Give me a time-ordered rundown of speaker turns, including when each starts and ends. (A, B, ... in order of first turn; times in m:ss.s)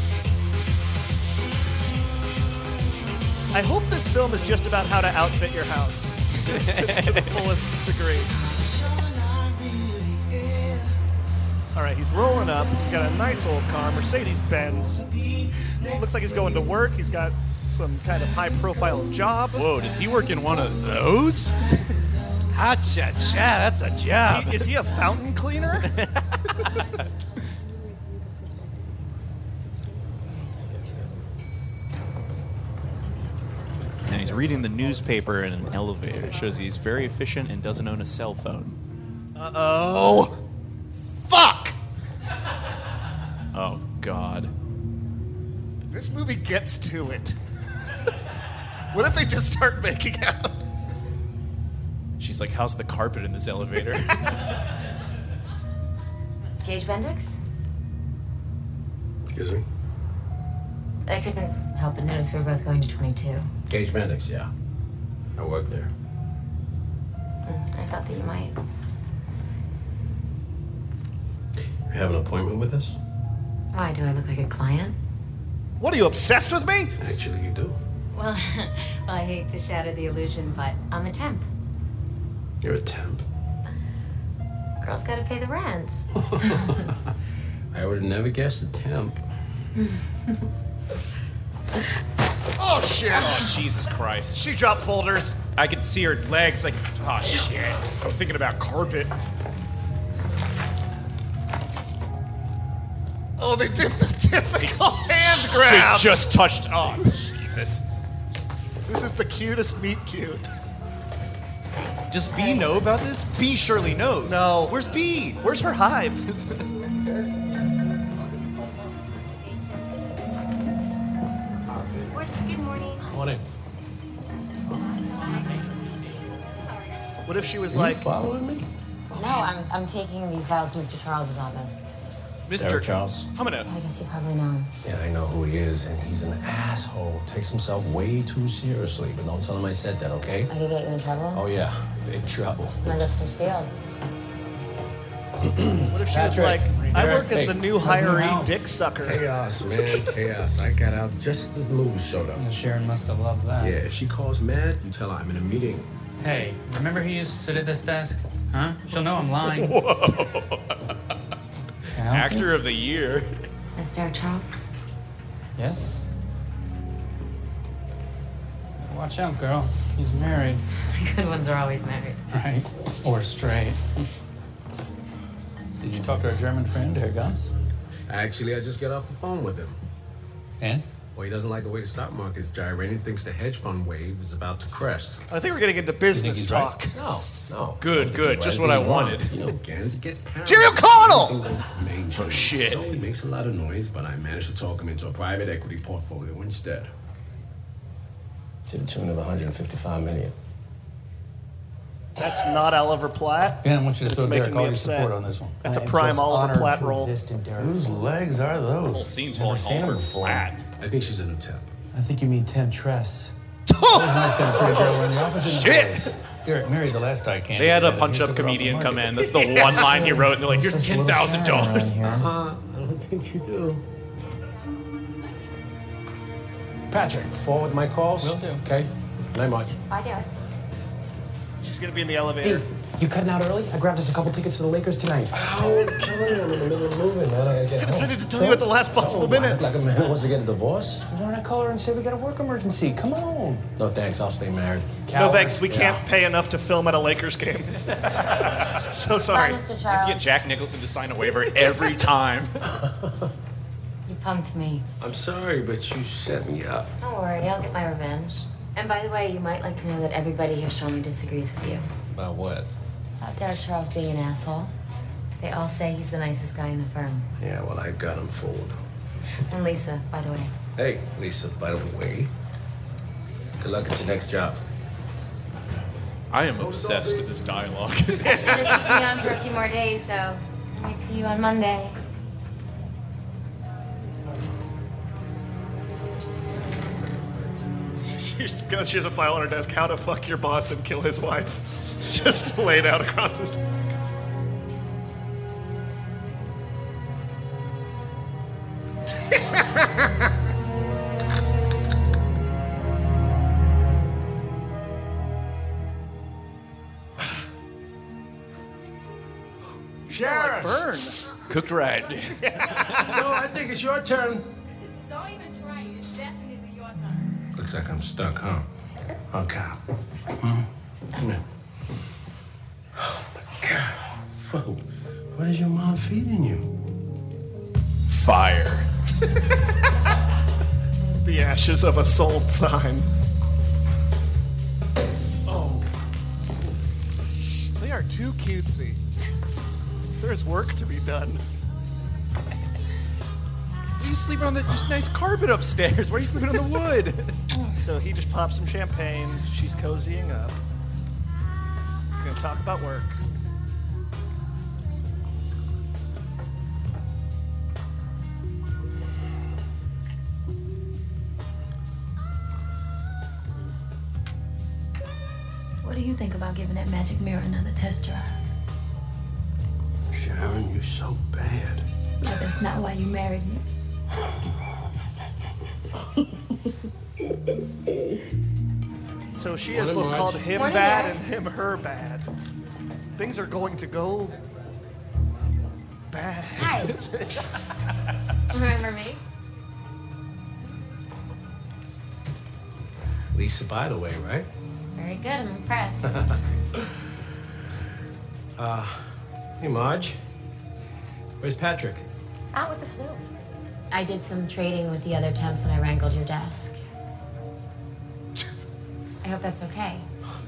0:03.5-0:08.3 A
0:06.3-0:07.5 B
0:11.8-0:15.1 A
0:15.8-0:19.7 A
0:19.5-0:21.8 B
0:22.5-0:24.7 B
0:24.3-0:25.9 A
0:25.8-0:27.1 B
0:34.0-0:38.8 B
0:39.4-0:40.4 A
0:41.2-0:41.8 A
0:43.5-0:44.5 B
0:45.9-0:47.4 A
0:48.9-0:50.6 A
0:52.2-0:54.4 B
0:56.6-0:57.4 C
0:59.3-0:59.6 D
1:01.1-1:03.5 C
1:03.7-1:04.5 D
1:05.4-1:05.9 D
1:07.5-1:08.6 C
1:11.9-1:13.0 D
1:13.7-1:15.0 C
1:15.8-1:16.9 A
1:17.0-1:17.8 D
1:18.1-1:21.5 C
1:22.6-1:23.2 D
1:24.8-1:26.9 C
1:26.2-1:26.9 D
1:27.7-1:29.2 D
1:29.8-1:30.3 C
1:32.6-1:33.5 A
1:33.1-1:34.4 B
1:34.3-1:35.4 A
1:35.6-1:39.1 B
1:43.4-1:46.3 A
1:44.6-1:47.9 B
1:48.9-1:50.5 A
1:51.7-1:52.9 C
1:52.1-1:55.4 B
1:54.2-1:56.3 A
2:02.1-2:03.0 C
2:03.1-2:03.4 D
2:07.2-2:08.0 A
2:07.7-2:08.7 D
2:09.1-2:09.4 A
2:09.2-2:11.8 C
2:12.5-2:13.7 B
2:12.6-2:13.3 D
2:13.7-2:14.7 C
2:14.8-2:20.5 D
2:20.5-2:21.4 C
2:21.3-2:22.8 D
2:22.8-2:23.7 C
2:25.4-2:28.3 D
2:25.9-2:29.2 A
2:26.7-2:28.5 E
2:29.0-2:32.5 D
2:32.4-2:33.8 E
2:33.6-2:35.9 D
2:36.2-2:39.8 E
2:39.6-2:41.0 B
2:42.0-2:42.5 E
2:42.1-2:43.3 B
2:43.8-2:44.6 C
2:45.6-2:46.1 E
2:48.8-2:50.6 E
2:50.8-2:52.2 C
2:52.3-2:53.8 E
2:55.8-2:57.5 E
2:58.1-2:59.8 D
3:00.6-3:00.9 E
3:01.1-3:05.2 D
3:05.3-3:07.0 A
3:06.1-3:06.8 E
3:07.0-3:16.9 D
3:07.8-3:09.4 B
3:10.4-3:11.4 A
3:12.2-3:12.9 B
3:18.7-3:20.3 D
3:22.2-3:27.1 A
3:23.6-3:29.3 E
3:27.0-3:28.1 F
3:28.9-3:30.6 B
3:29.4-3:30.5 F
3:30.8-3:31.7 D
3:31.9-3:33.3 E
3:33.7-3:35.0 A
3:33.9-3:39.2 E
3:35.4-3:36.2 B
3:37.6-3:42.1 B
3:39.8-3:42.3 F
3:42.1-3:43.8 D
3:46.9-3:49.8 D
3:48.2-3:48.6 E
3:49.9-3:50.3 C
3:51.6-3:52.6 A
3:52.4-3:55.9 F
3:55.3-4:01.1 D
3:57.8-3:59.7 A
4:01.1-4:03.7 F
4:03.8-4:05.1 D
4:05.1-4:09.6 A
4:05.6-4:06.0 D
4:08.0-4:08.4 B
4:09.3-4:10.4 C
4:09.9-4:12.6 B
4:12.6-4:13.3 D
4:14.1-4:14.8 C
4:15.0-4:16.9 D
4:17.0-4:21.9 C
4:22.1-4:22.7 D
4:23.2-4:24.7 C
4:25.4-4:27.3 C
4:27.4-4:28.8 D
4:29.5-4:30.5 C
4:30.8-4:32.3 D
4:33.6-4:34.6 D
4:36.3-4:38.7 B
4:36.6-4:37.2 D
4:38.2-4:39.1 A
4:38.3-4:42.0 C
4:48.1-4:53.6 A
4:59.2-5:00.1 A
5:10.1-5:10.8 D
5:10.1-5:11.3 A
5:11.5-5:13.2 B
5:12.4-5:13.0 A
5:12.9-5:14.4 D
5:16.0-5:16.9 G
5:17.6-5:18.7 D
5:19.3-5:19.8 D
5:20.4-5:21.4 D
5:23.0-5:26.7 D
5:28.1-5:28.9 B
5:31.2-5:33.1 A
5:37.8-5:39.0 A
5:40.2-5:41.4 A
5:44.0-5:47.4 B
5:47.8-5:50.6 A
5:52.2-5:53.2 A
6:05.8-6:08.3 G
6:10.1-6:11.8 D
6:12.2-6:13.6 G
6:19.4-6:22.3 A
6:19.7-6:20.5 D
6:20.5-6:21.3 C
6:23.2-6:24.4 A
6:26.1-6:26.9 A
6:26.6-6:26.9 C
6:26.9-6:27.4 B
6:28.5-6:29.2 C
6:33.3-6:34.5 D
6:35.0-6:36.2 C
6:36.1-6:36.9 D
6:38.6-6:39.0 D
6:39.6-6:40.2 D
6:41.4-6:42.0 D
6:42.5-6:43.2 C
6:43.9-6:46.8 C
6:49.2-6:50.1 C